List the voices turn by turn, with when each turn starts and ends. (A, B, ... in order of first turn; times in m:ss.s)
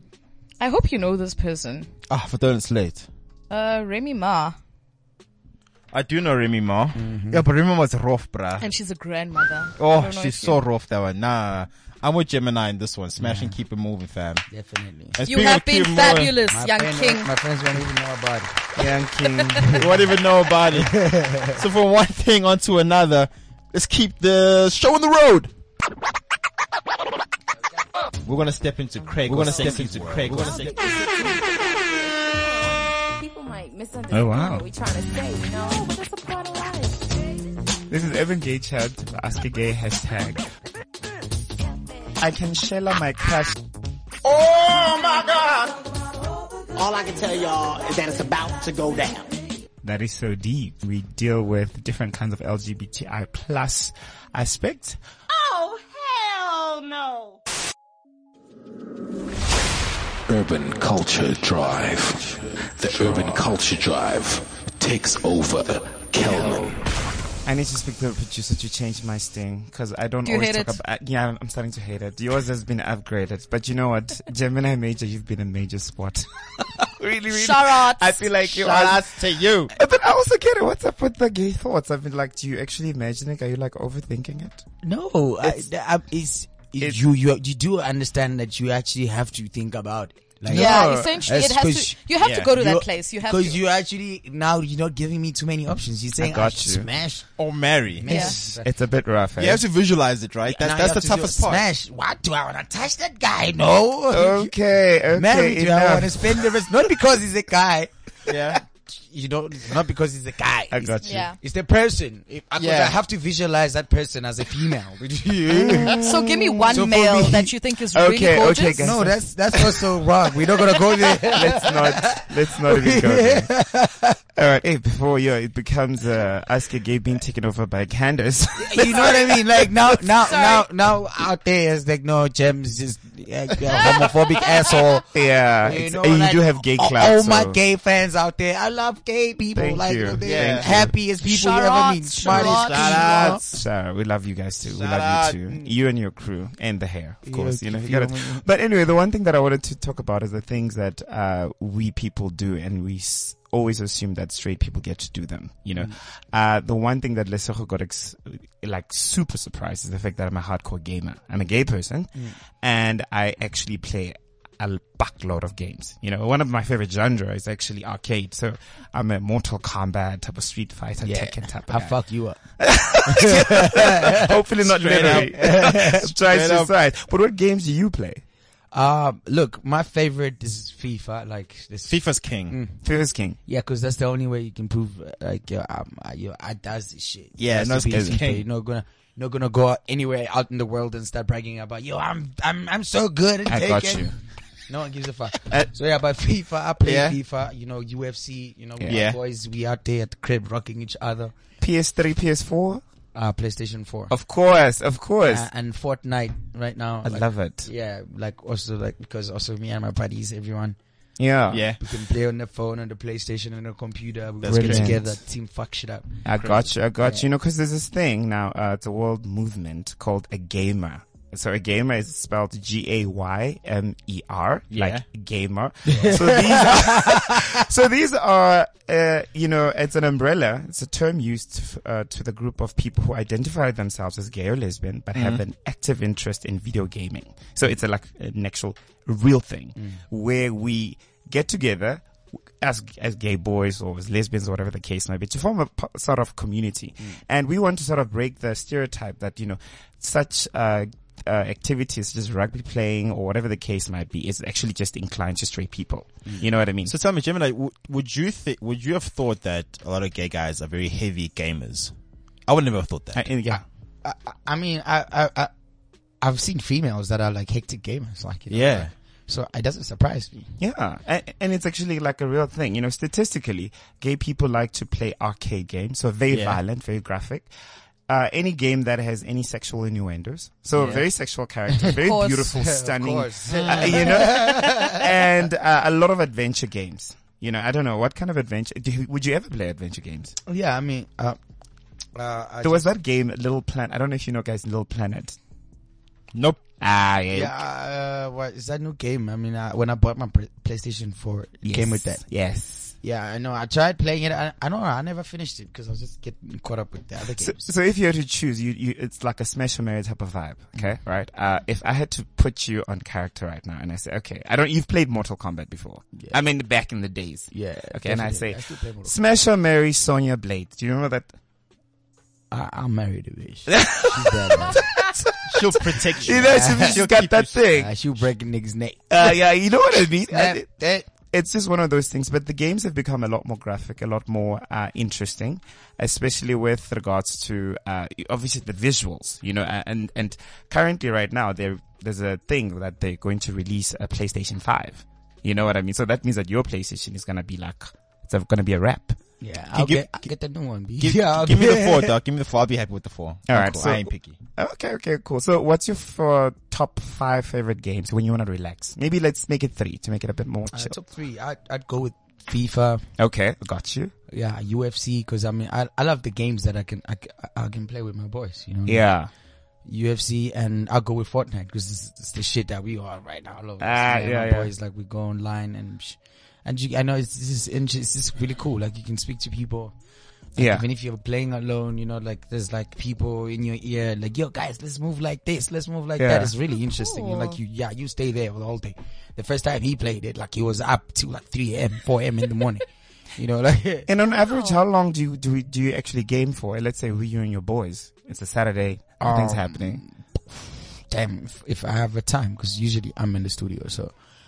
0:00.6-0:01.9 A
0:02.1-0:03.1 B
0:03.5-0:04.6 A
0:05.9-0:08.6 B
0:06.9-0:07.5 C
0:08.6-0:10.6 A
0:09.8-0:14.4 B
0:13.2-0:13.6 C
0:14.5-0:15.2 C
0:15.2-0:16.4 B
0:15.2-0:17.3 A
0:16.5-0:18.6 C
0:18.8-0:20.0 D
0:19.7-0:25.5 B
0:20.7-0:21.6 C
0:28.2-0:30.8 B
0:29.2-0:30.7 D
0:30.6-0:37.3 E
0:34.1-0:34.7 D
0:37.9-0:40.5 D
0:42.2-0:43.6 D
0:44.2-0:45.8 F
0:46.8-0:49.3 F
0:49.8-0:55.0 D
0:55.3-0:57.4 F
1:00.3-1:06.8 G
1:07.4-1:24.7 D
1:10.2-1:10.8 A
1:17.3-1:18.2 A
1:18.4-1:19.7 B
1:24.8-1:37.3 C
1:25.4-1:25.7 D
1:30.5-1:31.2 D
1:30.5-1:33.6 A
1:32.2-1:32.5 B
1:36.2-1:36.9 D
1:37.4-1:38.6 B
1:37.9-1:38.7 C
1:38.1-1:38.4 A
1:38.6-1:39.6 D
1:39.4-1:41.6 B
1:40.5-1:44.5 C
1:44.1-1:46.5 D
1:45.1-1:56.0 C
1:48.3-1:48.6 B
1:50.7-1:51.3 D
1:51.0-1:51.4 A
1:52.6-1:53.0 B
1:55.5-1:56.8 D
1:56.0-1:59.0 A
1:56.7-1:57.5 C
1:57.9-1:59.8 D
1:58.8-2:04.2 C
2:01.2-2:03.5 D
2:04.4-2:09.8 D
2:08.6-2:15.1 C
2:10.2-2:10.7 A
2:13.8-2:14.5 A
2:15.1-2:17.6 D
2:15.6-2:23.4 C
2:19.5-2:20.9 D
2:20.2-2:20.9 B
2:21.2-2:23.4 A
2:22.2-2:23.6 B
2:23.5-2:52.0 D
2:24.6-2:25.4 B
2:27.2-2:28.4 C
2:51.0-2:56.1 C
2:52.6-2:58.2 D
2:54.6-2:56.7 B
2:58.7-3:02.8 C
3:01.9-3:02.6 B
3:02.8-3:03.4 D
3:03.5-3:14.1 C
3:07.4-3:08.4 B
3:07.6-3:08.2 D
3:13.5-3:14.2 D
3:14.7-3:21.4 C
3:16.8-3:17.2 B
3:18.9-3:19.2 B
3:21.6-3:22.8 D
3:23.1-3:24.1 C
3:24.1-3:25.5 D
3:25.2-3:30.8 C
3:27.0-3:27.7 D
3:31.2-3:31.7 D
3:31.5-3:31.8 B
3:31.8-3:36.2 C
3:34.4-3:35.1 B
3:34.5-3:35.0 D
3:36.2-4:02.0 D
3:37.0-3:37.3 C
3:44.7-3:45.0 B
3:45.9-3:47.4 C
3:55.2-3:55.4 B
4:02.6-4:17.0 D
4:16.9-4:21.9 B
4:22.5-4:23.3 B
4:23.1-4:23.6 D
4:23.5-4:25.5 C
4:26.2-4:30.4 C
4:28.5-4:28.9 B
4:30.6-4:37.5 D
4:36.3-4:36.6 B
4:38.1-4:50.4 D
4:40.8-4:41.0 B
4:42.0-4:42.5 A
4:42.5-4:45.1 C
4:43.5-4:44.1 B
4:50.5-4:51.4 C
4:52.2-4:52.9 C
4:52.6-4:55.4 D
4:56.3-4:56.6 B
4:56.8-4:57.5 D
4:57.3-5:02.3 C
5:01.6-5:02.9 D
5:03.0-5:07.7 C
5:07.4-5:21.3 D
5:17.5-5:19.2 C
5:22.5-5:24.8 C
5:23.7-5:24.2 D
5:24.7-5:27.9 D
5:25.5-5:27.6 B
5:26.2-5:27.1 C
5:27.7-5:29.4 C
5:29.1-5:49.2 D
5:30.3-5:31.1 C
5:49.4-5:52.2 C
5:49.7-5:50.3 B
5:51.0-5:54.4 B
5:53.5-6:01.0 D
6:00.7-6:03.0 C
6:03.2-6:04.1 D
6:04.3-6:09.1 C
6:08.9-6:09.3 D
6:09.8-6:19.9 C
6:13.8-6:14.7 D
6:20.6-6:34.1 C
6:20.6-6:20.8 D
6:26.2-6:26.5 D
6:27.0-6:27.6 A
6:34.1-6:40.0 D
6:39.2-6:44.1 C